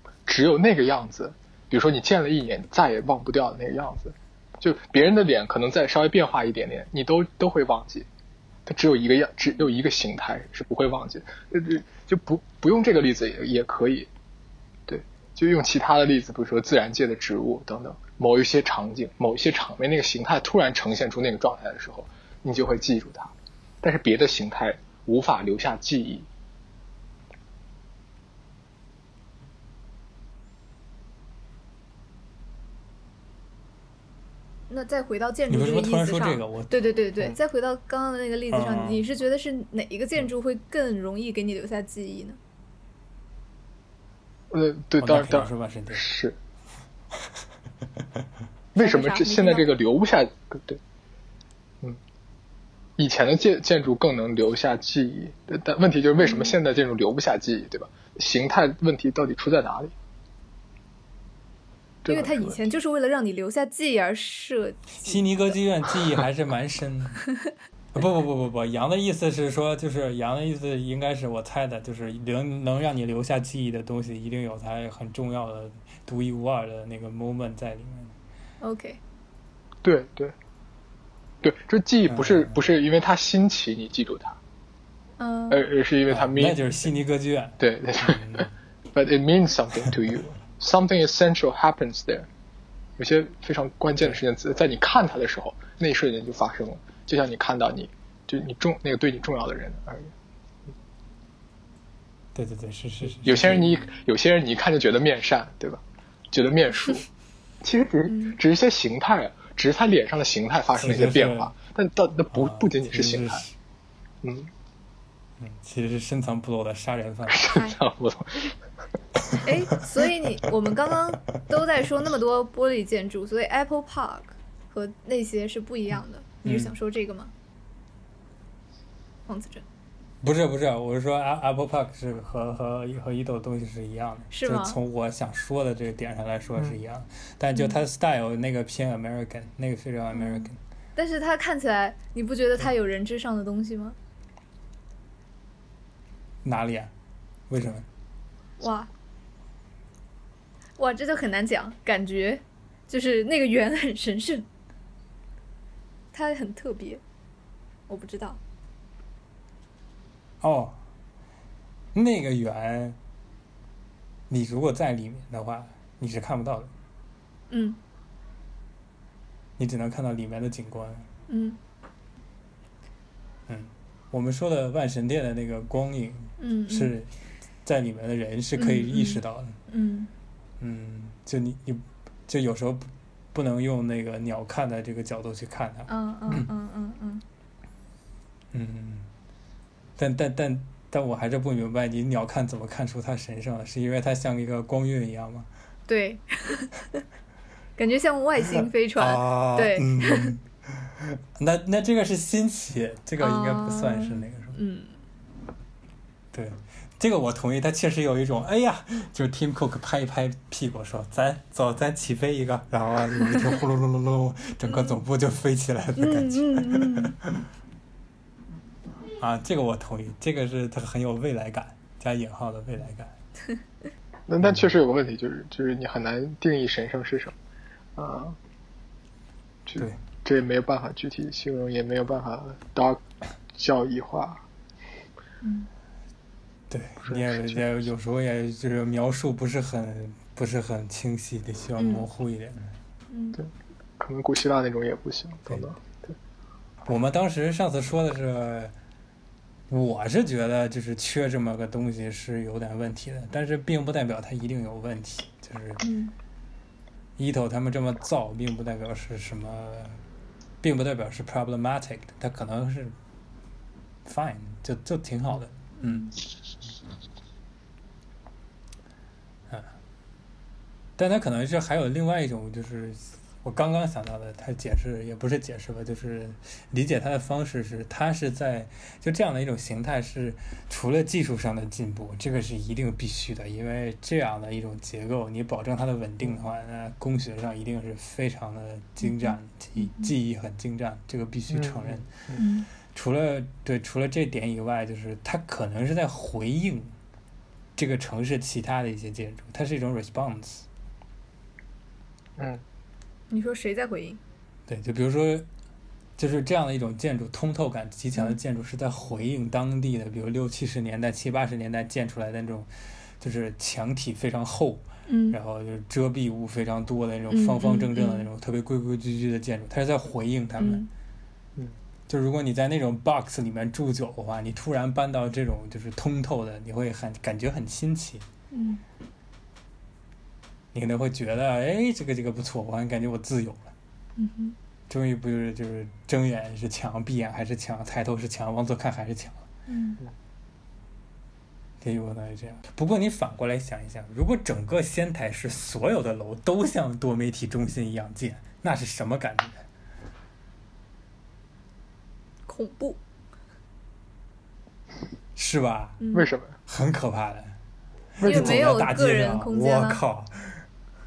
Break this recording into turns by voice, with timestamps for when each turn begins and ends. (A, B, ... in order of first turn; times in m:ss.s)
0:00.2-0:08.1 A
0:08.6-0:14.1 A
0:14.9-0:26.3 A
0:34.7-0:42.4 B
0:35.5-0:36.9 C
0:38.5-0:39.0 C
0:44.5-0:46.4 A
0:45.0-0:46.1 C
0:48.7-0:50.8 A
0:48.8-0:49.7 B
0:53.0-0:59.9 A
0:56.2-0:56.6 B
1:02.0-1:02.6 A
1:02.1-1:05.5 B
1:04.9-1:07.2 C
1:07.9-1:18.1 C
1:18.6-1:19.0 B
1:19.8-1:20.3 A
1:21.4-1:24.4 A
1:22.1-1:22.6 C
1:25.2-1:25.6 B
1:25.5-1:26.8 A
1:26.1-1:28.5 C
1:27.6-1:32.3 A
1:33.0-1:40.1 A
1:42.3-1:43.9 C
1:43.2-1:47.0 A
1:47.6-1:53.4 A
1:48.1-1:48.4 B
1:50.8-1:51.5 C
1:52.3-1:53.5 C
1:54.2-1:54.5 A
1:55.4-1:57.6 C
1:57.3-1:58.6 A
1:57.5-1:57.8 B
1:59.4-2:07.3 B
2:06.4-2:06.7 C
2:09.3-2:09.6 B
2:10.2-2:20.6 C
2:14.3-2:14.8 B
2:17.5-2:17.8 B
2:20.1-2:24.0 B
2:26.4-2:26.9 C
2:27.5-2:27.8 C
2:28.6-2:28.9 B
2:30.8-2:34.4 B
2:36.1-2:37.0 B
2:37.9-2:38.4 B
2:40.4-2:40.8 C
2:41.9-2:43.0 C
2:44.3-2:46.7 C
2:47.5-2:47.8 B
2:49.6-2:51.1 C
2:51.3-2:51.6 B
2:53.5-2:57.1 C
2:56.4-2:56.9 B
2:57.6-2:59.6 C
2:58.6-3:00.1 B
3:00.6-3:06.5 C
3:05.9-3:07.2 B
3:08.5-3:09.1 C
3:10.0-3:15.5 C
3:15.9-3:17.0 B
3:17.8-3:20.3 B
3:19.0-3:24.6 C
3:23.2-3:25.0 B
3:26.3-3:37.3 C
3:34.7-3:35.0 B
3:36.0-3:37.1 B
3:39.2-3:43.1 C
3:44.3-3:47.3 A
3:44.4-3:44.7 C
3:48.0-3:48.4 A
3:49.7-3:53.0 A
3:53.5-3:54.4 A
3:55.4-3:55.7 B
3:56.7-4:02.7 C
3:57.0-3:57.6 A
4:01.8-4:02.0 B
4:03.1-4:03.4 B
4:03.4-4:06.2 A
4:06.8-4:08.7 C
4:09.7-4:15.8 C
4:15.8-4:16.1 B
4:17.2-4:20.0 C
4:20.6-4:22.9 C
4:24.0-4:26.1 C
4:25.8-4:26.2 B
4:31.0-4:52.2 C
4:49.0-4:50.1 B
4:51.5-4:52.4 A
4:52.4-4:52.7 B
4:52.9-4:56.9 C
4:57.8-5:00.6 C
5:02.4-5:02.6 A
5:03.3-5:04.2 B
5:04.7-5:05.5 C
5:06.2-5:20.8 C
5:15.1-5:15.4 B
5:17.3-5:18.3 B
5:20.6-5:20.9 B
5:22.1-5:28.2 C
5:28.5-5:28.8 B
5:30.7-5:33.7 C
5:34.2-5:34.6 B
5:34.9-5:39.4 C
5:39.7-5:40.0 B
5:41.8-5:49.6 C
5:52.5-5:53.0 B
5:55.4-5:56.0 C
5:56.0-5:56.3 B
5:56.1-5:56.5 A
5:56.7-5:57.6 C
5:58.2-5:58.8 A
5:58.2-6:00.6 C
5:58.2-6:00.0 B